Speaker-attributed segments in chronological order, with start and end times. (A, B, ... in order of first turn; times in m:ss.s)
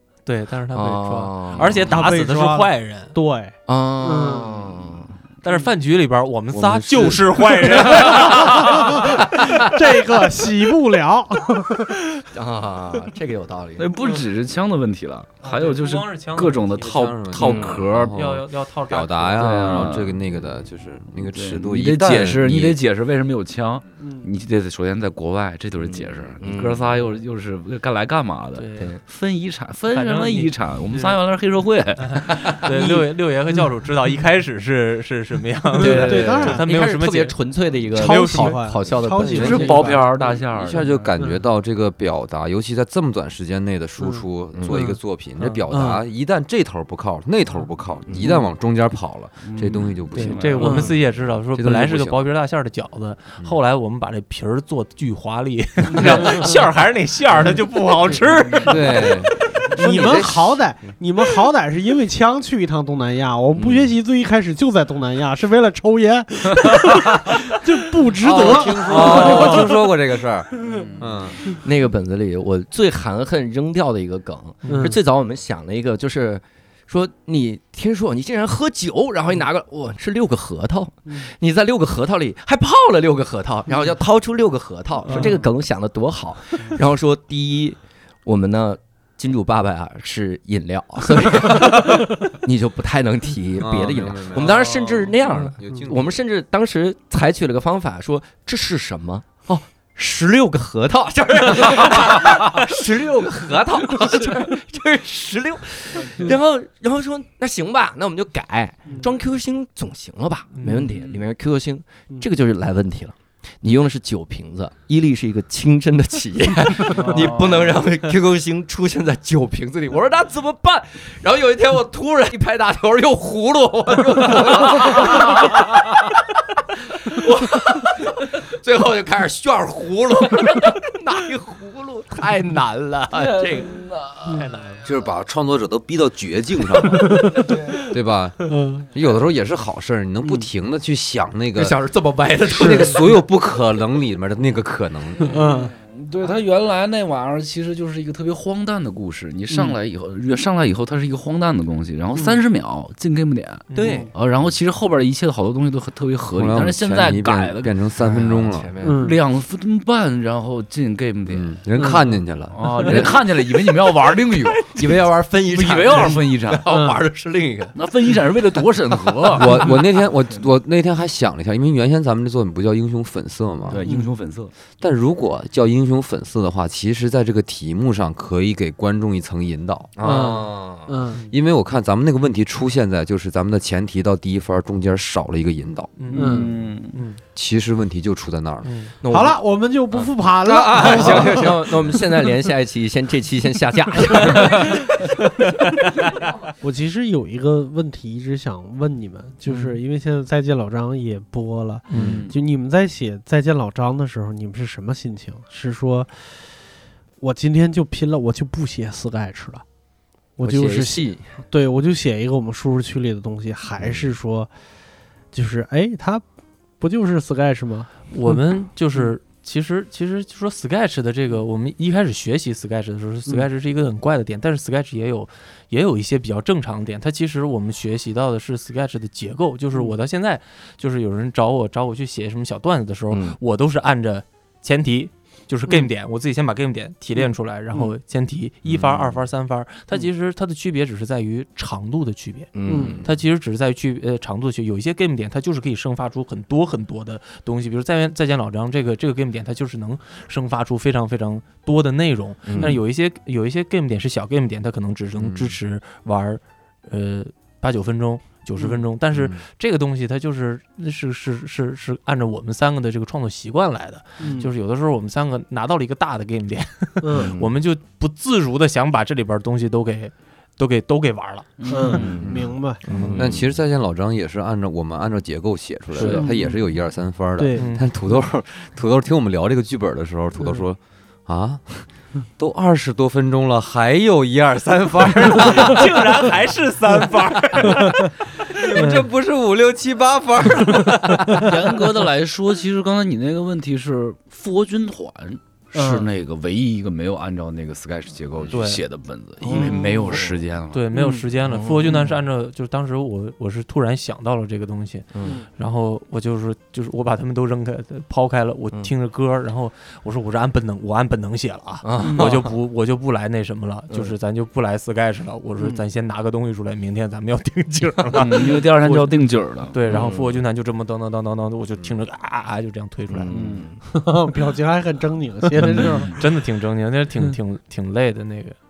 0:00.2-0:03.2 A
0:00.7-0:01.9 B
0:01.8-0:04.6 C
0:03.7-0:05.2 B
0:05.4-0:09.7 A
0:07.9-0:12.2 C
0:12.3-0:13.9 B
0:13.8-0:18.2 D
0:15.4-0:19.4 A
0:16.8-0:22.8 E
0:19.4-0:20.2 D
0:21.2-0:32.6 D
0:25.8-0:26.9 B
0:28.5-0:28.9 A
0:29.9-0:31.1 A
0:32.0-0:37.4 A
0:35.8-0:36.6 C
0:35.8-0:36.6 D
0:35.9-0:40.0 B
0:37.9-0:39.7 A
0:37.9-0:40.0 C
0:39.3-0:39.7 E
0:39.4-0:41.1 D
0:40.6-0:52.3 E
0:44.0-0:45.0 C
0:44.5-0:44.8 B
0:45.7-0:46.0 C
0:49.4-0:50.9 D
0:50.1-0:59.4 A
0:50.6-0:50.9 C
0:56.0-0:56.5 C
0:58.6-1:00.6 E
0:59.7-1:09.8 C
1:03.6-1:03.9 B
1:08.2-1:11.4 E
1:08.8-1:09.7 A
1:10.6-1:11.3 D
1:11.6-2:05.9 B
1:14.6-1:15.0 A
1:14.7-1:15.0 C
1:25.1-1:25.4 C
1:25.1-1:25.3 A
1:33.6-1:36.0 E
1:50.5-1:51.0 A
1:50.9-1:51.2 D
1:57.0-1:57.8 D
2:07.0-2:14.4 B
2:13.1-2:14.4 D
2:14.3-2:14.8 A
2:14.8-2:21.8 E
2:16.9-2:17.8 C
2:18.4-2:18.9 C
2:21.6-2:23.2 B
2:22.5-2:25.4 E
2:25.2-2:25.7 C
2:25.3-2:37.7 D
2:33.7-2:34.1 A
2:33.7-2:34.1 B
2:33.8-2:34.1 C
2:36.3-2:38.7 E
2:38.2-2:39.1 B
2:38.8-2:39.2 C
2:38.8-2:41.5 D
2:41.3-2:43.2 E
2:41.8-2:42.1 C
2:42.5-2:46.7 D
2:44.6-2:47.8 B
2:46.7-2:47.0 C
2:47.7-2:49.8 D
2:49.3-2:53.8 E
2:53.7-2:54.5 D
2:54.8-2:59.9 E
3:00.0-3:00.9 B
3:00.0-3:01.2 C
3:01.3-3:06.0 E
3:06.0-3:07.2 A
3:06.1-3:07.0 D
3:06.1-3:06.5 C
3:07.3-3:08.7 E
3:08.6-3:08.9 A
3:09.0-3:09.4 B
3:09.0-3:12.1 C
3:09.9-3:14.9 B
3:11.1-3:11.4 E
3:14.2-3:14.4 C
3:16.6-3:26.4 C
3:19.5-3:19.8 A
3:21.9-3:22.2 A
3:21.9-3:22.2 B
3:21.9-3:22.3 D
3:27.2-3:29.6 C
3:30.4-3:34.5 C
3:30.4-3:31.3 B
3:35.3-3:36.2 C
3:36.8-3:37.9 C
3:38.1-4:32.0 A
3:53.1-3:53.4 B
3:58.6-3:59.2 E
4:02.5-4:03.0 B
4:02.7-4:03.0 C
4:02.7-4:03.1 E
4:12.4-4:12.8 B
4:15.2-4:15.6 E
4:18.6-4:18.8 C
4:24.2-4:24.5 C
4:27.0-4:27.3 C
4:31.6-4:32.4 D
4:31.7-4:33.1 C
4:31.9-4:33.4 B
4:33.2-4:46.3 E
4:36.0-4:36.3 A
4:36.0-4:36.2 D
4:36.1-4:36.6 C
4:37.4-4:37.7 C
4:37.5-4:37.8 A
4:45.4-4:48.1 A
4:47.5-4:51.6 E
4:48.7-4:49.0 A
4:50.8-4:51.4 C
4:51.3-5:00.8 D
4:55.7-4:56.1 C
4:58.5-4:58.8 A
4:59.4-5:00.4 B
4:59.4-5:00.2 C
5:00.7-5:23.3 A
5:00.9-5:01.2 C
5:01.4-5:02.2 B
5:05.1-5:05.4 B
5:11.8-5:12.5 B
5:12.0-5:12.3 C
5:18.1-5:20.2 D
5:19.9-5:20.1 B
5:23.1-5:23.8 B
5:23.3-5:23.7 D
5:23.9-5:26.3 C
5:25.6-5:28.6 A
5:25.7-5:26.1 D